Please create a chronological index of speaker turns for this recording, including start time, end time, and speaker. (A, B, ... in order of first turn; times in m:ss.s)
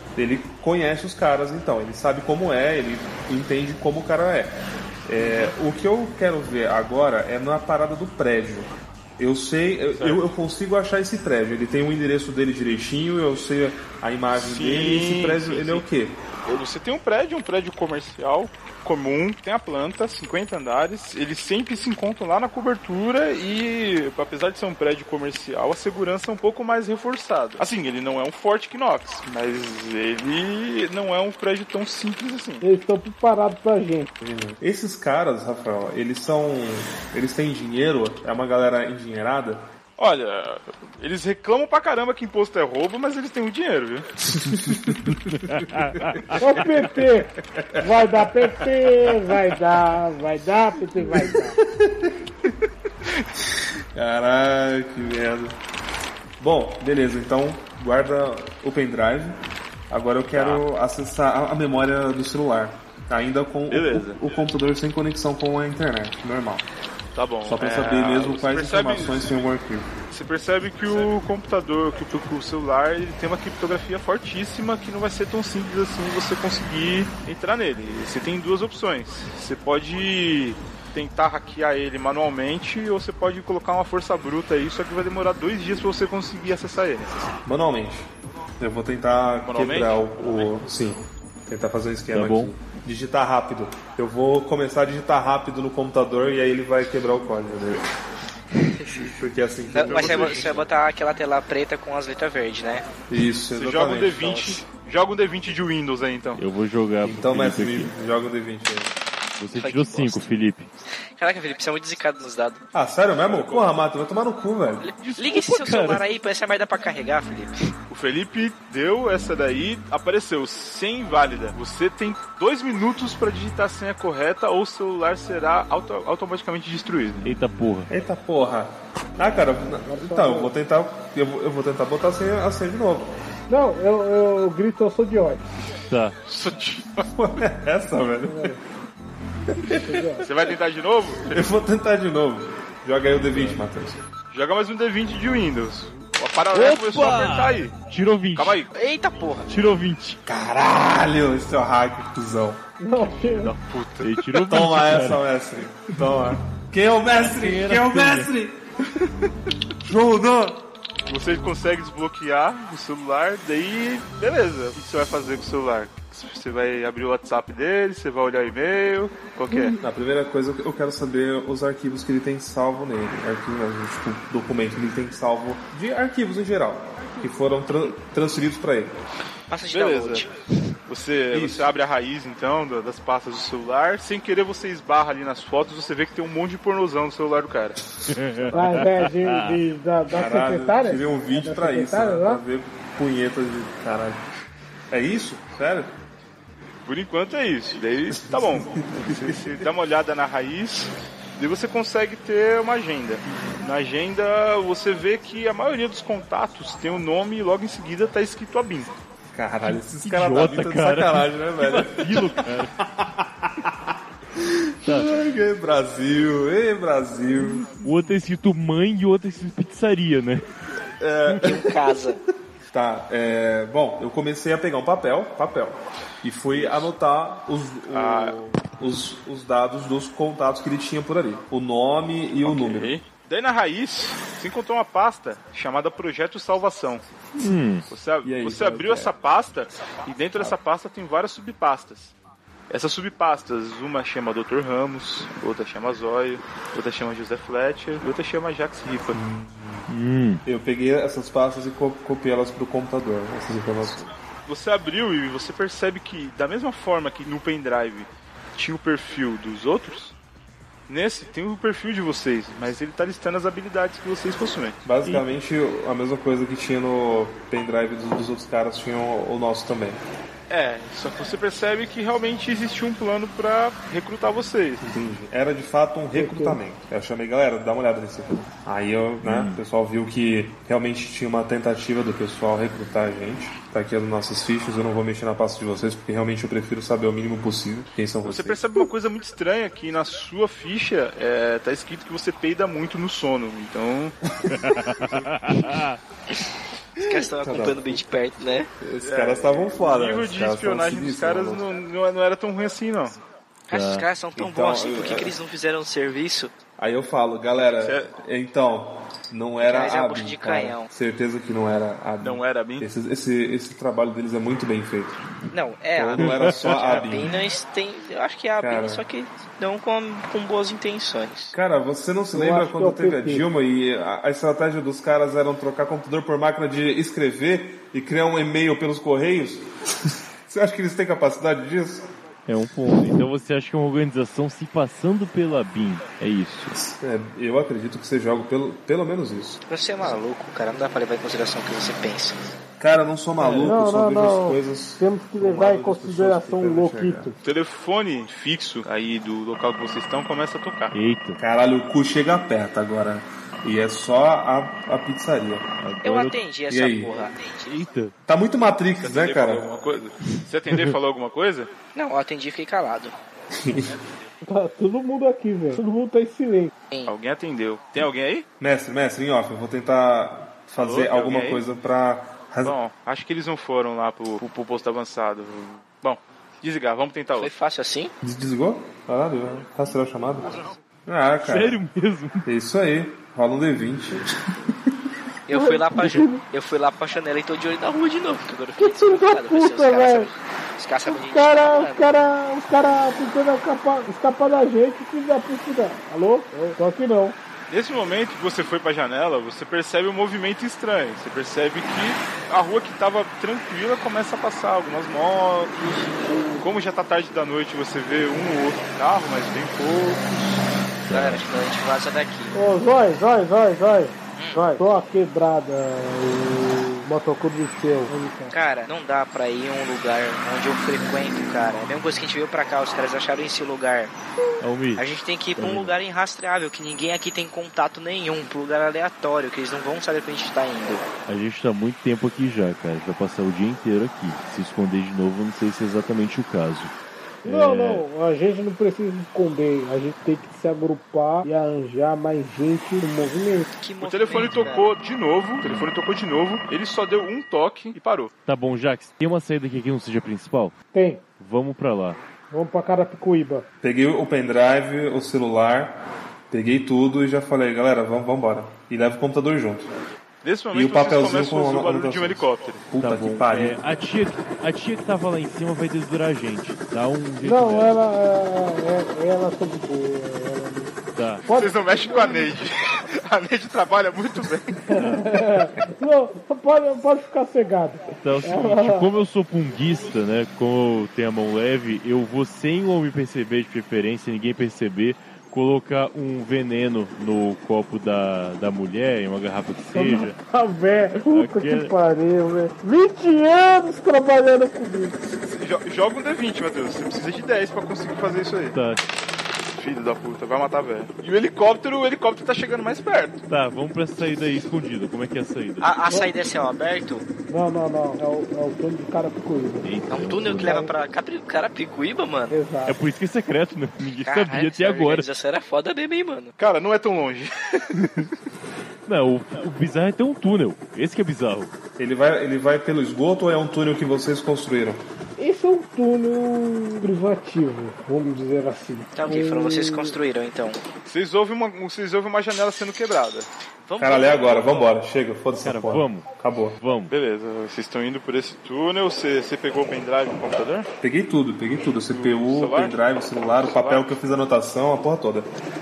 0:00.2-0:16.2 A
0:05.2-0:05.5 B
0:09.9-0:10.3 B
0:14.3-0:15.8 B
0:16.4-0:32.6 B
0:32.6-0:34.1 C
0:34.2-0:39.7 A
0:40.0-0:44.1 B
0:44.4-0:46.4 A
0:45.1-0:46.4 D
0:46.4-0:51.6 C
0:47.6-0:48.5 A
0:51.1-0:52.5 A
0:53.9-0:55.6 A
0:56.4-1:06.6 A
1:00.3-1:00.6 B
1:03.7-1:04.2 B
1:07.1-1:09.4 B
1:07.4-1:09.9 A
1:10.1-1:27.3 B
1:27.4-1:28.1 A
1:28.6-1:37.8 A
1:29.4-1:30.1 B
1:32.1-1:32.5 D
1:38.8-1:39.1 E
1:38.8-1:40.7 A
1:39.7-1:42.9 E
1:39.8-1:40.6 B
1:43.1-1:44.6 A
1:43.5-1:46.4 B
1:46.4-1:47.9 D
1:47.0-1:48.9 A
1:49.4-1:50.7 D
1:49.5-1:50.2 E
1:51.2-1:52.6 E
1:52.7-1:54.9 A
1:53.2-1:53.7 B
1:54.9-1:57.5 E
1:55.0-1:56.0 D
1:57.9-2:07.4 B
2:07.2-2:07.9 D
2:07.9-2:13.2 A
2:09.8-2:10.5 C
2:13.5-2:15.4 C
2:15.9-2:16.2 D
2:16.2-2:17.1 B
2:17.1-2:18.5 A
2:18.2-2:18.6 C
2:19.5-2:20.3 A
2:19.6-2:20.2 C
2:20.2-2:21.4 B
2:21.3-2:24.0 A
2:23.2-2:23.6 D
2:24.3-2:27.7 B
2:26.5-2:28.6 D
2:28.3-2:28.7 B
2:28.7-2:29.5 E
2:29.5-2:30.2 D
2:30.2-2:32.6 A
2:32.8-2:33.5 C
2:33.2-2:34.3 B
2:34.0-2:35.2 D
2:34.4-2:38.6 A
2:37.2-2:38.3 D
2:39.8-2:40.6 A
2:41.1-2:49.8 B
2:49.5-2:59.0 A
2:59.5-3:00.3 E
2:59.7-3:00.3 B
3:00.9-3:07.8 B
3:01.3-3:01.7 A
3:08.1-3:09.6 D
3:08.5-3:12.4 C
3:10.1-3:14.2 A
3:14.9-3:15.9 A
3:16.8-3:28.9 B
3:18.1-3:19.6 A
3:29.3-3:37.8 A
3:29.6-3:32.7 D
3:37.8-3:40.4 D
3:41.0-3:41.9 A
3:41.3-3:42.2 E
3:42.7-3:52.9 A
3:46.5-3:46.9 B
3:47.9-3:48.4 B
3:52.4-3:57.0 B
3:57.4-3:57.8 D
3:57.9-4:02.1 B
3:58.2-3:59.1 A
4:02.7-4:09.2 B
4:09.1-4:09.9 A
4:09.9-4:10.4 D
4:10.4-4:14.1 A
4:14.5-4:20.1 B
4:20.9-4:24.8 B
4:24.8-4:30.0 A
4:30.5-4:34.8 B
4:34.8-4:48.6 A
4:36.1-4:36.6 C
4:39.2-4:39.6 D
4:48.2-4:54.2 B
4:54.5-4:56.0 D
4:57.0-4:58.0 A
4:57.0-4:58.7 E
4:58.8-5:01.6 A
4:59.0-5:03.2 B
5:03.7-5:06.5 E
5:03.7-5:04.1 D
5:04.4-5:05.4 A
5:06.8-5:15.2 A
5:07.8-5:08.1 B
5:09.6-5:10.9 E
5:12.2-5:12.9 B
5:15.5-5:21.6 E
5:15.9-5:17.3 A
5:16.2-5:16.9 D
5:18.6-5:19.0 A
5:21.5-5:32.1 A
5:22.3-5:23.4 C
5:32.5-5:36.8 D
5:36.8-5:39.6 A
5:39.7-5:42.4 E
5:42.8-5:47.3 A
5:43.4-5:47.3 C
5:47.4-5:50.9 B
5:50.9-5:51.4 D
5:51.4-5:55.7 A
5:55.8-5:56.4 D
5:56.0-5:57.6 E
5:56.7-5:57.1 A
5:57.6-5:58.1 D
5:58.3-5:59.6 A
5:59.0-6:01.7 B
6:01.9-6:03.1 E
6:03.5-6:03.9 A
6:04.4-6:06.7 C
6:07.0-6:08.4 B
6:08.6-6:12.8 A
6:10.8-6:11.6 B
6:12.6-6:17.5 B
6:17.4-6:18.1 E
6:18.2-6:21.8 A
6:21.4-6:22.5 D
6:22.4-6:24.7 A
6:25.5-6:32.1 E
6:25.5-6:26.4 C
6:28.8-6:30.3 C
6:31.1-6:37.4 C
6:37.7-6:50.6 B
6:46.3-6:46.6 C
6:51.1-6:51.4 D
6:51.1-6:52.5 E
6:52.5-6:58.5 C
6:54.4-6:54.8 E
6:58.5-7:04.1 E
7:04.6-7:05.0 D
7:05.0-7:11.0 E
7:05.6-7:05.9 D
7:11.3-7:16.9 D
7:17.4-7:23.6 C
7:17.4-7:18.0 D
7:23.8-7:24.9 E
7:24.0-7:28.3 B
7:25.6-7:25.9 D
7:28.4-7:30.7 D
7:30.9-7:31.2 C
7:31.4-7:32.2 D
7:32.5-7:33.6 C
7:33.8-7:36.0 A
7:36.5-7:39.9 A
7:40.4-7:42.8 B
7:40.7-7:43.8 A
7:43.0-7:48.0 D
7:47.4-7:52.5 C
7:51.2-7:51.4 D
7:51.5-7:54.8 B
7:54.9-7:59.1 C
7:58.2-8:10.4 D
8:09.9-8:15.2 C
8:11.3-8:11.9 D
8:15.4-8:18.8 B
8:18.7-8:19.0 D
8:19.7-8:23.4 B
8:23.5-8:25.9 D
8:25.8-8:27.2 E
8:26.1-8:26.4 C
8:27.5-8:29.9 C
8:29.8-8:30.8 D
8:30.1-8:32.6 E
8:30.6-8:30.9 C
8:32.5-8:33.0 C
8:32.8-8:35.3 D
8:34.2-8:36.5 E
8:36.6-8:38.3 B
8:38.0-8:38.2 D
8:39.0-8:41.7 D
8:42.0-8:45.0 A
8:45.4-8:50.1 C
8:49.2-8:50.8 E
8:51.0-8:53.5 B
8:53.8-8:54.8 E
8:54.0-8:56.8 A
8:55.6-8:56.3 D
8:56.8-8:57.1 D
8:57.1-9:00.9 B
9:01.0-9:05.5 A
9:02.1-9:03.0 B
9:03.6-9:04.1 B